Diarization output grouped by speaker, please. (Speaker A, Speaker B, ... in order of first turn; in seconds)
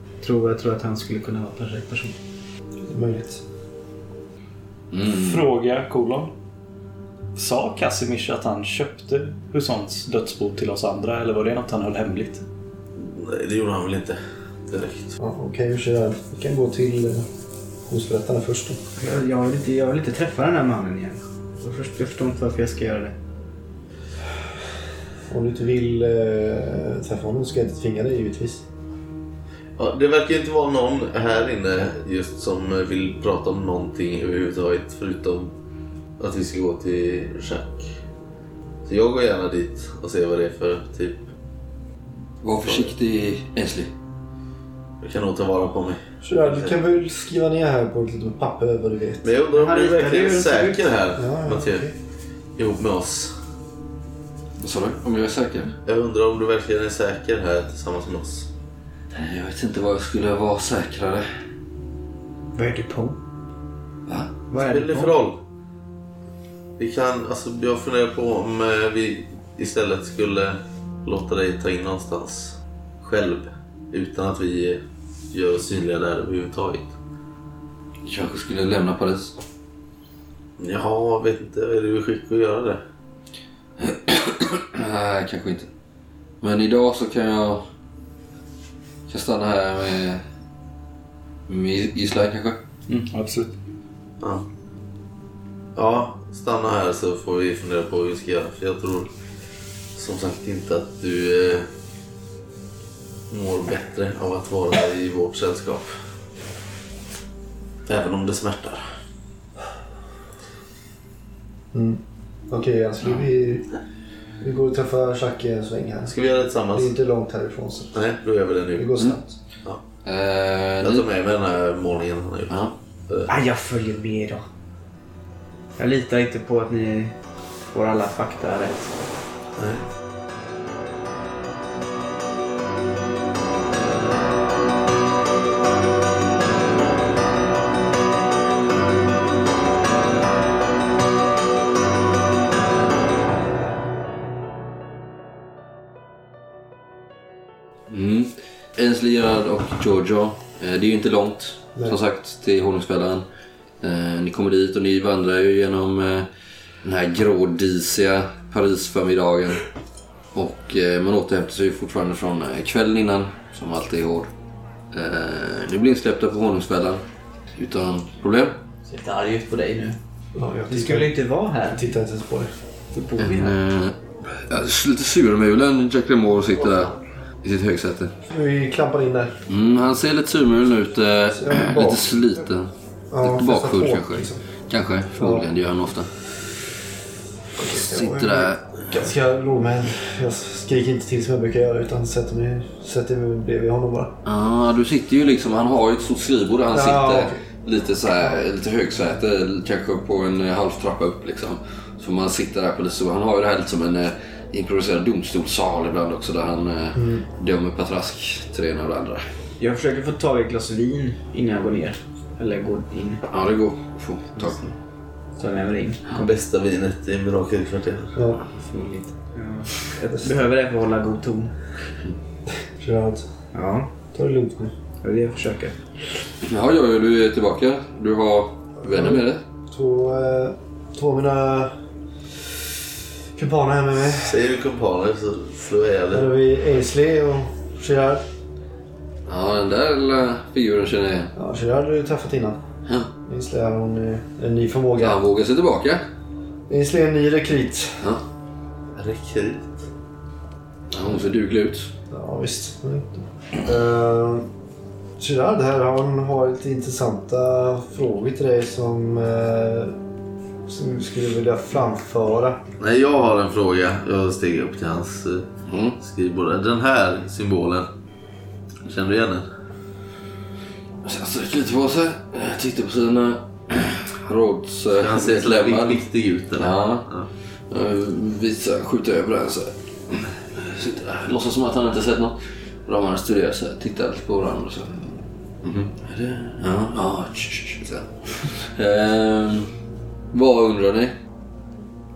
Speaker A: 0.2-2.1, 19.0-23.1, 49.5-50.8, 62.5-63.2, 64.5-65.1, 123.3-124.5, 125.8-127.2, 127.7-129.0, 168.9-170.0, 170.7-171.9, 172.9-173.5, 209.6-213.2, 214.4-214.7, 215.4-216.3, 218.5-221.6, 223.5-223.9, 225.0-225.8
Speaker B: 2.9-3.4, 15.2-17.3, 17.9-18.8, 25.3-28.6, 46.2-49.3, 51.1-51.9, 111.7-113.7, 114.4-116.2, 116.7-118.0, 118.7-119.3, 170.3-171.1, 171.7-172.5, 178.2-179.4, 181.3-182.0, 183.1-184.4, 185.2-185.4, 187.6-194.1, 196.7-197.4, 206.9-207.2, 218.1-218.4, 220.0-220.3, 222.8-223.3, 224.1-224.7, 228.8-231.8, 233.3-234.4, 236.1-238.2, 241.3-242.6, 243.2-245.2, 246.7-248.1, 252.1-254.5, 255.2-260.0, 260.6-262.6
Speaker C: 4.9-5.4, 42.4-43.9, 54.6-55.7, 59.1-61.3, 64.0-64.3, 78.0-79.4, 83.8-85.7, 86.4-87.6, 89.1-90.2, 91.5-92.6, 120.0-121.1, 122.5-122.7, 147.9-153.2, 153.8-156.3, 156.8-159.6, 160.3-164.3, 164.9-167.0, 167.5-168.6, 173.2-178.1, 179.5-182.7, 183.2-186.3, 187.6-188.8, 194.2-209.3, 213.3-214.6, 226.4-229.4, 239.3-241.3, 245.0-246.0, 250.9-251.9, 265.6-266.0, 271.0-276.0, 276.5-277.1, 277.7-285.3, 285.9-289.7, 290.3-291.1
Speaker D: 5.0-6.3, 7.3-12.4, 92.9-93.5
Speaker E: 12.9-15.2, 29.8-35.5, 36.2-37.9, 38.9-41.2, 42.6-42.9, 45.0-46.8, 49.2-51.9, 52.5-53.4, 55.8-58.5, 64.5-65.4, 66.8-76.9, 80.6-82.8, 94.2-94.4, 95.7-99.1, 99.9-101.7, 103.3-106.0, 107.8-109.0, 116.1-116.9, 117.9-119.0, 120.8-123.3, 129.6-129.8, 216.1-218.2, 234.1-236.3, 248.9-249.7, 262.8-265.5, 266.0-267.9, 268.8-269.5, 275.0-277.3